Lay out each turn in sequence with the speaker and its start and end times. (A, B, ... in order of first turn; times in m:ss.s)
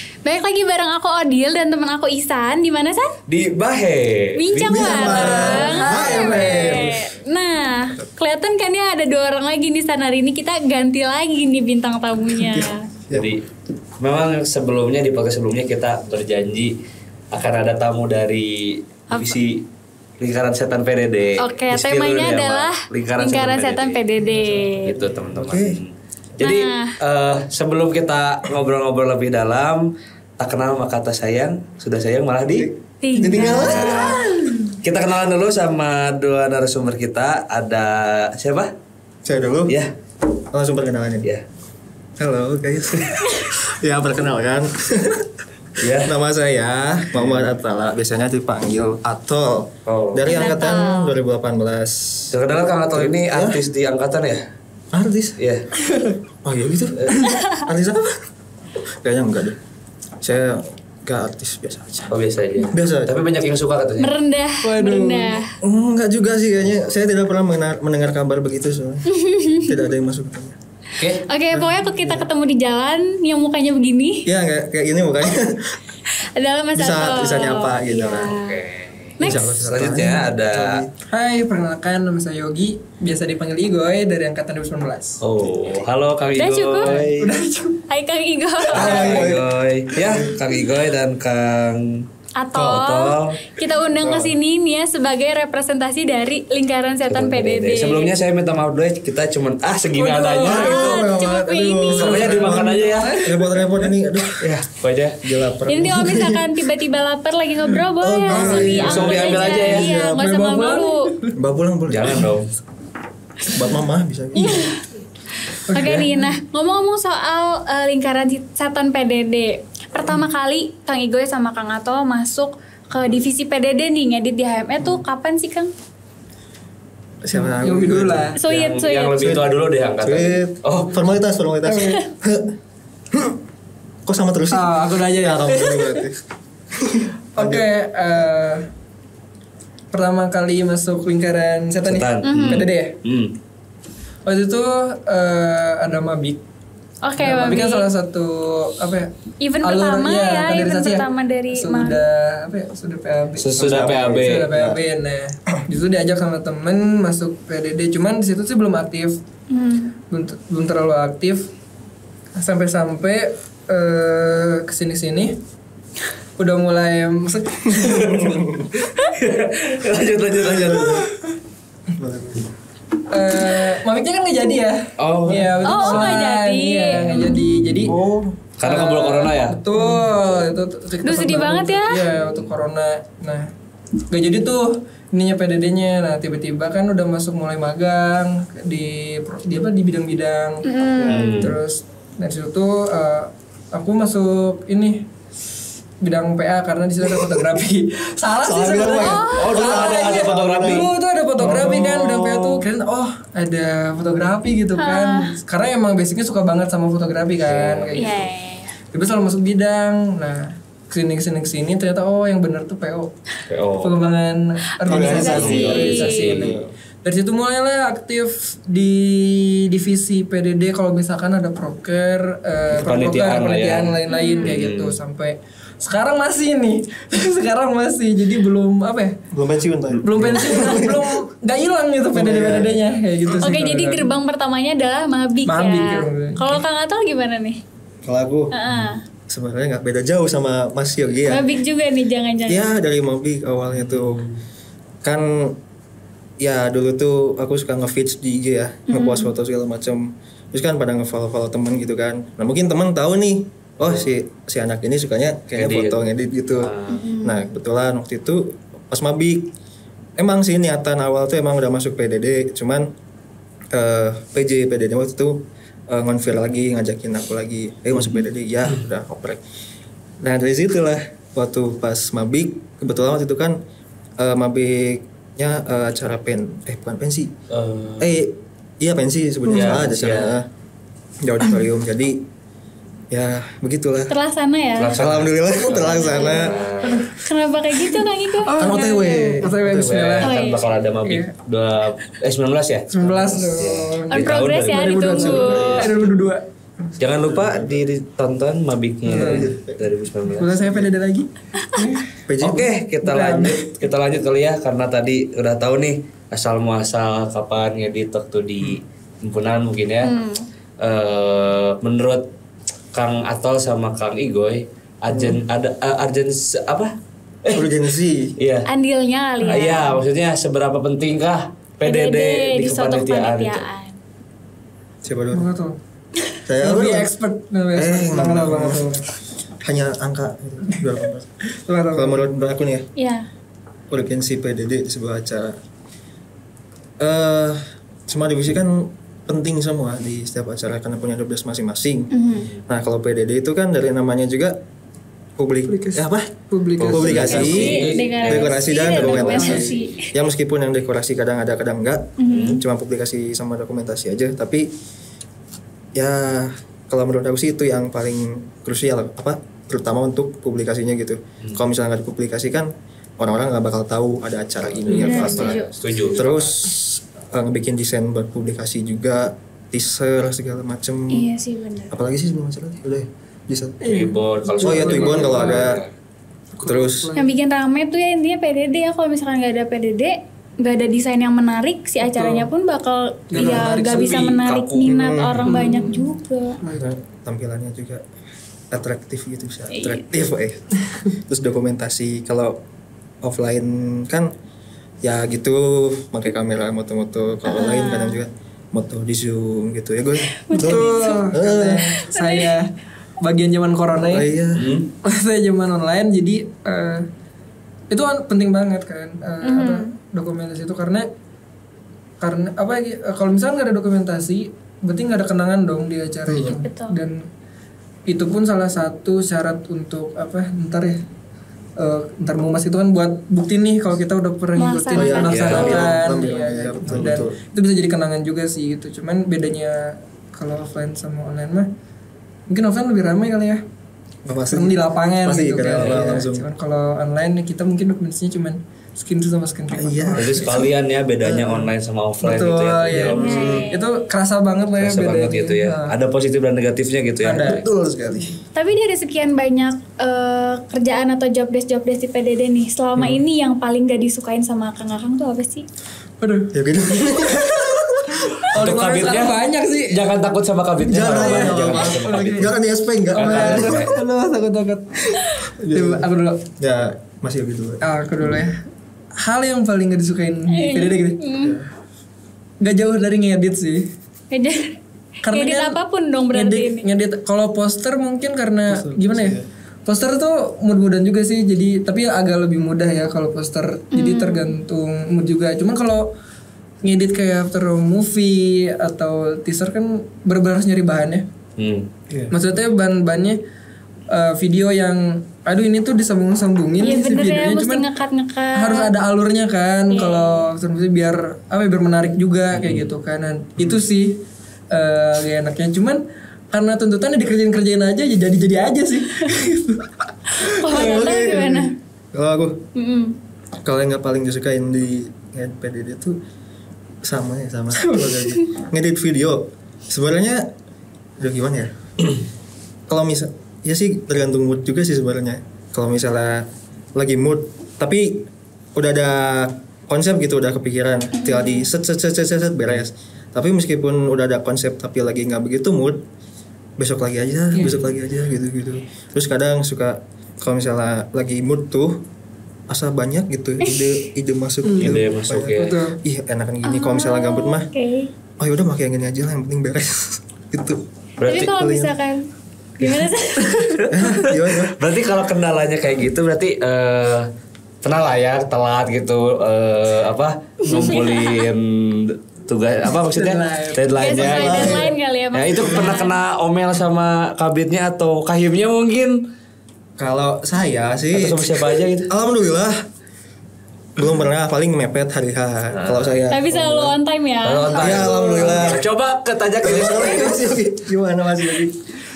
0:00.2-0:03.1 A
0:03.3-0:06.3 B
0:04.4-0:12.9 A
0:04.6-0:07.1 C
0:05.2-0:06.8 D
0:13.1-0:13.4 B
0:14.0-0:16.7 B
0:17.3-0:19.6 B
0:19.1-0:19.4 A
0:20.2-0:24.0 B
0:21.4-0:25.0 A
0:24.8-0:29.8 B
0:25.2-0:25.8 C
0:26.4-0:27.0 A
0:30.4-0:32.7 B
0:32.5-0:34.4 C
0:33.0-0:34.5 A
0:33.4-0:34.3 B
0:34.8-0:38.7 B
0:39.2-0:39.8 C
0:40.5-0:41.3 C
0:42.2-0:45.3 C
0:45.8-0:46.1 B
0:45.9-0:52.3 C
0:47.2-0:47.5 B
0:49.9-0:50.4 B
0:50.3-0:51.2 A
0:52.3-0:54.4 B
0:52.9-0:53.6 C
0:54.9-0:55.4 C
0:55.4-0:55.6 B
0:55.8-0:56.2 D
0:56.4-0:58.2 C
0:57.3-0:57.6 A
0:59.0-0:59.6 C
1:00.2-1:02.1 C
1:02.1-1:04.1 B
1:02.7-1:03.2 C
1:04.0-1:05.5 A
1:04.6-1:05.4 D
1:05.6-1:10.6 C
1:09.1-1:09.7 A
1:11.0-1:11.2 B
1:11.2-1:14.3 A
1:11.5-1:12.3 C
1:14.3-1:15.8 C
1:16.4-1:18.6 A
1:16.8-1:18.4 C
1:18.4-1:20.8 B
1:19.2-1:19.6 A
1:19.2-1:20.9 C
1:21.1-1:25.2 D
1:25.2-1:27.3 B
1:26.4-1:27.0 A
1:26.8-1:27.8 D
1:27.9-1:29.2 A
1:28.7-1:30.4 C
1:28.7-1:33.4 B
1:28.9-1:29.3 D
1:32.4-1:38.1 A
1:34.0-1:34.3 C
1:37.1-1:41.0 B
1:40.0-1:40.9 D
1:40.5-1:42.2 A
1:40.5-1:44.5 C
1:41.9-1:43.2 B
1:42.0-1:43.9 D
1:44.4-1:45.2 B
1:45.2-1:46.5 C
1:45.7-1:51.1 A
1:48.0-1:50.4 C
1:48.3-1:51.3 D
1:48.3-1:50.0 B
1:51.4-1:52.3 C
1:51.9-1:52.5 B
1:53.5-1:54.8 C
1:54.4-1:54.8 A
1:55.5-2:05.7 A
1:55.7-1:56.3 D
2:07.2-2:08.4 C
2:07.3-2:08.4 D
2:08.4-2:09.2 A
2:08.5-2:11.0 B
2:09.2-2:09.5 C
2:10.0-2:12.5 C
2:11.7-2:12.0 D
2:11.7-2:12.0 A
2:13.1-2:13.4 C
2:14.0-2:16.2 C
2:14.5-2:16.1 D
2:16.7-2:17.7 C
2:17.4-2:18.7 D
2:19.9-2:23.0 D
2:21.8-2:23.4 B
2:22.2-2:22.7 A
2:24.2-2:26.4 D
2:27.0-2:27.9 A
2:27.2-2:39.2 D
2:29.4-2:32.0 A
2:33.4-2:34.5 B
2:33.6-2:34.8 C
2:39.5-2:39.9 A
2:40.1-2:41.5 D
2:42.4-2:45.4 D
2:46.4-2:48.3 D
2:47.8-2:48.7 C
2:47.8-2:48.4 B
2:49.1-2:51.1 B
2:50.5-2:51.1 C
2:52.0-2:52.4 C
2:53.1-2:58.0 D
2:55.0-2:56.3 B
2:55.6-2:57.8 A
2:57.9-2:58.4 C
2:58.6-2:59.6 B
2:58.6-3:03.5 D
2:59.7-3:00.3 C
3:01.0-3:02.1 A
3:04.1-3:15.1 D
3:10.6-3:11.5 A
3:11.0-3:11.6 B
3:16.0-3:28.3 D
3:17.0-3:17.3 C
3:18.4-3:22.4 C
3:19.0-3:19.4 A
3:19.3-3:20.9 B
3:21.4-3:22.6 B
3:24.8-3:25.3 A
3:27.5-3:28.0 B
3:28.0-3:28.8 A
3:28.9-3:33.1 D
3:33.5-3:34.0 B
3:33.8-3:49.2 D
3:34.9-3:36.7 C
3:34.9-3:36.3 A
3:34.9-3:36.7 B
3:42.7-3:45.0 B
3:44.1-3:44.5 A
3:49.3-3:51.1 C
3:50.0-3:54.1 D
3:52.1-3:52.8 C
3:53.4-3:57.6 A
3:55.4-3:56.6 D
3:58.0-3:58.6 C
3:58.5-3:59.0 A
3:59.3-4:01.5 C
4:01.3-4:02.6 A
4:02.5-4:04.3 C
4:03.7-4:04.4 B
4:05.0-4:05.6 C
4:06.4-4:19.5 C
4:08.9-4:09.3 A
4:15.6-4:16.0 B
4:16.6-4:17.0 B
4:16.9-4:17.4 A
4:20.2-4:22.9 C
4:23.7-4:29.4 C
4:30.2-4:33.6 C
4:34.2-4:37.3 C
4:37.5-4:38.2 B
4:38.0-4:40.5 C
4:39.5-4:40.4 B
4:41.2-4:42.2 C
4:43.1-4:44.1 C
4:44.1-4:45.0 A
4:44.8-4:47.1 B
4:45.0-4:46.6 C
4:45.8-4:46.5 A
4:46.8-4:47.1 D
4:47.2-4:48.5 A
4:48.4-4:50.3 D
4:48.5-4:50.2 C
4:49.6-4:52.9 B
4:50.2-4:50.6 A
4:52.9-4:56.4 D
4:53.0-4:53.6 C
4:53.6-4:56.0 B
4:54.1-4:55.8 A
4:55.0-4:56.3 C
4:57.0-5:00.6 B
4:57.2-4:57.8 C
4:59.0-4:59.5 D
4:59.1-4:59.9 C
5:00.4-5:02.1 D
5:00.6-5:00.9 C
5:02.3-5:02.8 C
5:02.4-5:10.1 B
5:03.0-5:03.6 D
5:10.0-5:10.4 A
5:10.8-5:12.3 B
5:12.9-5:16.9 B
5:15.1-5:15.4 C
5:17.4-5:17.7 B
5:17.5-5:18.4 C
5:18.4-5:18.7 B
5:18.7-5:20.0 A
5:19.4-5:23.6 B
5:21.8-5:24.0 A
5:25.0-5:25.5 C
5:25.3-5:25.8 D
5:26.5-5:27.1 C
5:26.6-5:29.0 D
5:27.8-5:28.8 C
5:29.6-5:31.3 C
5:31.6-5:32.3 D
5:31.9-5:32.9 C
5:33.0-5:33.3 A
5:33.9-5:35.6 C
5:37.0-5:42.1 C
5:42.1-5:42.5 A
5:42.7-5:44.6 C
5:45.4-5:46.3 C
5:45.7-5:47.7 D
5:46.8-5:49.8 B
5:46.8-5:54.7 C
5:46.9-5:50.1 A
5:49.2-5:49.6 D
5:52.2-5:52.6 A
5:52.3-5:52.6 B
5:56.0-6:11.3 C
6:04.8-6:06.5 B
6:04.9-6:05.3 D
6:05.0-6:05.7 A
6:11.1-6:12.0 A
6:11.9-6:14.0 C
6:13.8-6:15.8 D
6:13.9-6:15.9 B
6:14.6-6:15.8 C
6:16.6-6:17.4 D
6:16.6-6:17.1 C
6:17.2-6:26.6 A
6:22.0-6:22.5 D
6:23.3-6:24.3 D
6:23.4-6:25.0 B
6:24.8-6:25.9 C
6:25.4-6:26.1 D
6:26.6-6:26.9 D
6:26.7-6:28.0 C
6:28.7-6:32.6 C
6:29.7-6:30.0 A
6:33.2-6:34.3 C
6:35.0-6:42.0 C
6:37.4-6:38.2 A
6:40.5-6:41.3 A
6:40.5-6:44.3 D
6:41.9-6:42.5 A
6:44.0-6:44.8 C
6:44.6-6:44.9 B
6:45.0-6:47.1 D
6:47.9-6:51.1 D
6:49.4-6:49.9 A
6:52.2-6:57.3 D
6:56.3-6:56.6 C
6:56.5-6:57.0 A
6:58.1-7:01.0 D
7:01.8-7:11.7 D
7:04.6-7:05.8 A
7:04.9-7:07.4 C
7:05.3-7:06.0 B
7:12.5-7:13.6 D
7:14.2-7:16.5 C
7:14.5-7:20.7 D
7:15.8-7:16.1 B
7:19.7-7:21.7 C
7:20.2-7:23.6 B
7:22.2-7:26.0 D
7:22.9-7:23.7 C
7:23.1-7:24.0 A
7:24.8-7:27.6 B
7:27.2-7:28.4 C
7:27.2-7:27.6 D
7:28.6-7:35.7 A
7:36.2-7:40.0 D
7:36.5-7:38.5 C
7:38.5-7:39.4 B
7:39.9-7:42.5 B
7:40.8-7:43.9 C
7:41.0-7:42.5 D
7:43.2-7:44.0 B
7:43.2-7:46.4 D
7:45.2-7:46.1 C
7:46.6-7:47.8 C
7:47.8-7:48.6 D
7:49.2-7:51.2 D
7:50.5-7:51.6 A
7:51.4-7:51.7 C
7:52.6-7:53.9 D
7:54.3-7:56.9 A
7:55.2-7:55.8 D
7:56.3-8:06.1 D
7:58.7-7:59.5 C
8:03.9-8:04.5 A
8:06.8-8:11.3 D
8:11.6-8:11.9 B
8:12.1-8:12.4 C
8:12.3-8:13.4 D
8:14.1-8:17.9 D
8:16.8-8:18.9 A
8:18.6-8:30.0 D
8:19.9-8:20.5 A
8:22.5-8:22.8 B
8:30.4-8:31.7 A
8:30.6-8:32.6 C
8:30.8-8:31.0 D
8:32.8-8:33.2 A
8:33.6-8:36.2 C
8:37.0-8:40.5 C
8:37.8-8:38.4 D
8:41.2-8:42.1 C
8:42.9-8:56.0 C
8:51.3-8:51.6 A
8:56.8-9:02.0 C
9:02.7-9:07.7 C
9:04.6-9:05.0 D
9:04.8-9:05.8 B
9:05.5-9:06.0 D
9:06.6-9:08.1 A
9:08.4-9:10.8 C
9:11.2-9:11.5 B
9:11.3-9:13.8 A
9:11.4-9:11.9 C
9:13.6-9:17.3 B
9:13.9-9:14.8 C
9:17.8-9:29.2 B
9:20.6-9:21.5 A
9:23.1-9:23.8 D
9:24.0-9:26.1 A
9:24.2-9:24.9 C
9:30.0-9:32.8 C
9:31.1-9:32.1 B
9:34.0-9:37.0 C
9:35.7-9:36.2 B
9:36.3-9:38.4 A
9:37.4-9:40.5 B
9:37.8-9:38.8 C
9:39.6-9:41.8 C